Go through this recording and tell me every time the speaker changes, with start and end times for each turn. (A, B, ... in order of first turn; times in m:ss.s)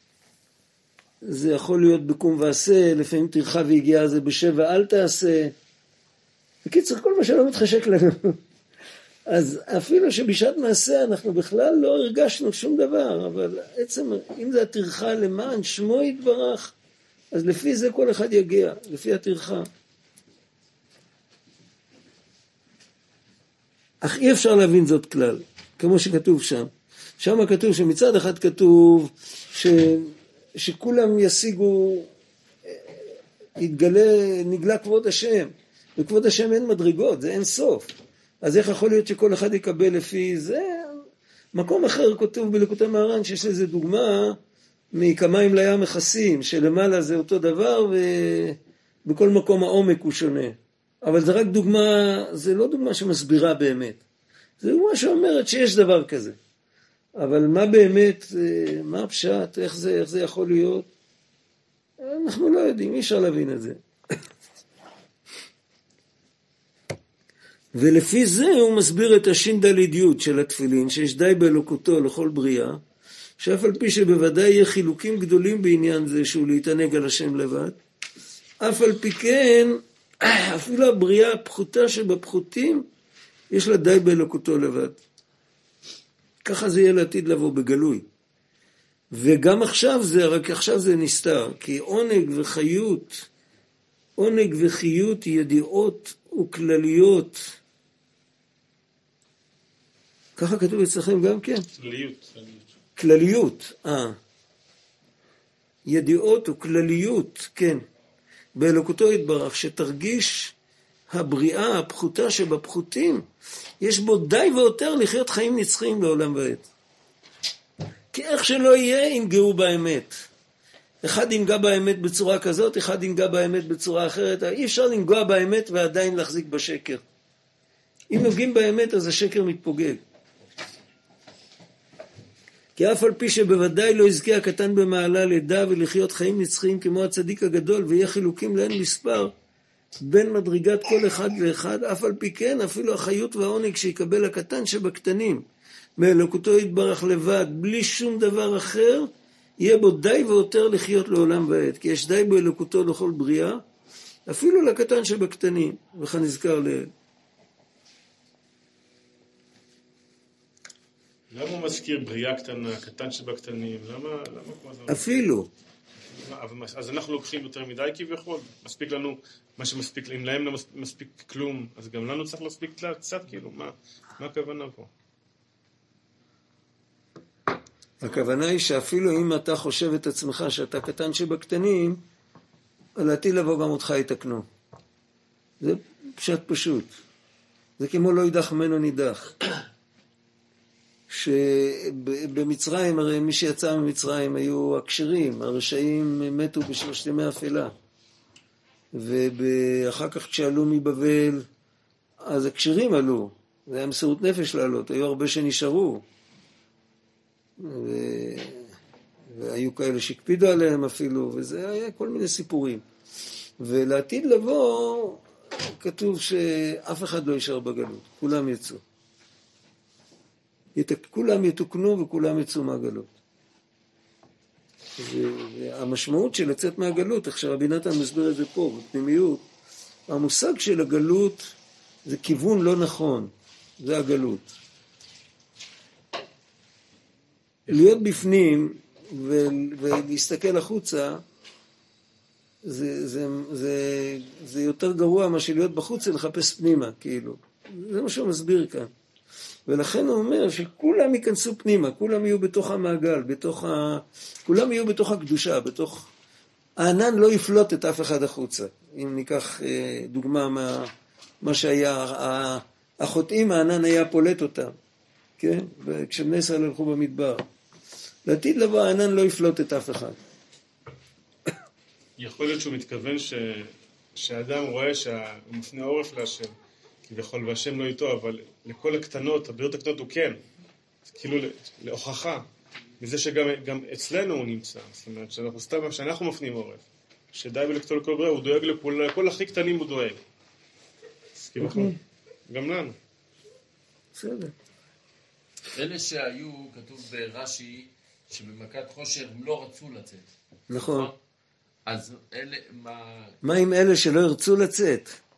0:01.2-0:05.5 A
0:06.6-0:08.4 A
0:09.3-0:16.7 A
0:17.3-0:19.7 A
0:24.0-0:32.1 A
0:32.7-0:32.9 A
0:33.6-0:37.9 A
0:38.4-0:41.0 A
0:41.5-0:44.4 A
0:44.9-0:54.0 A
0:54.6-0:56.4 A
0:57.2-1:00.9 A
1:02.0-1:03.8 A
1:07.7-1:12.8 A
1:13.4-1:17.8 A
1:18.6-1:22.9 A
1:23.5-1:25.0 A
1:26.4-1:28.0 A
1:29.1-1:33.3 A
1:34.2-1:37.6 A
1:40.4-1:41.7 A
1:41.8-1:42.7 B
1:43.0-1:44.2 A
1:45.9-1:47.8 A
1:48.6-1:50.5 A
1:51.1-1:53.2 A
1:53.8-1:56.7 A
1:58.1-2:00.2 A
2:01.0-2:07.0 A
2:08.1-2:10.0 A
2:12.8-2:19.3 A
2:20.0-2:25.4 A
2:26.0-2:33.6 A
2:34.3-2:36.9 A
2:41.3-2:45.2 B
2:44.9-2:45.5 A
2:46.2-2:54.9 B
2:58.0-3:02.0 A
3:03.0-3:04.4 A
3:05.6-3:06.9 A
3:07.8-3:09.4 A
3:11.1-3:17.7 A
3:18.9-3:21.5 A
3:22.2-3:26.0 A
3:27.6-3:28.7 A
3:29.3-3:32.8 A
3:33.6-3:38.8 A
3:40.8-3:43.1 A
3:45.0-3:49.4 A
3:50.1-3:51.5 A
3:52.0-3:54.5 A
3:57.7-4:01.2 A
4:02.6-4:08.9 A
4:09.7-4:16.1 A
4:16.8-4:20.9 A
4:21.4-4:24.7 A
4:25.4-4:27.4 A
4:28.3-4:30.2 A
4:32.2-4:36.5 B
4:37.1-4:40.4 B
4:41.1-4:42.4 B
4:43.0-4:50.2 B
4:51.4-4:53.0 B
4:51.6-4:52.0 A
4:54.2-4:54.5 A
4:55.7-5:01.1 C
5:00.7-5:01.1 A
5:01.9-5:03.4 C
5:03.4-5:05.2 A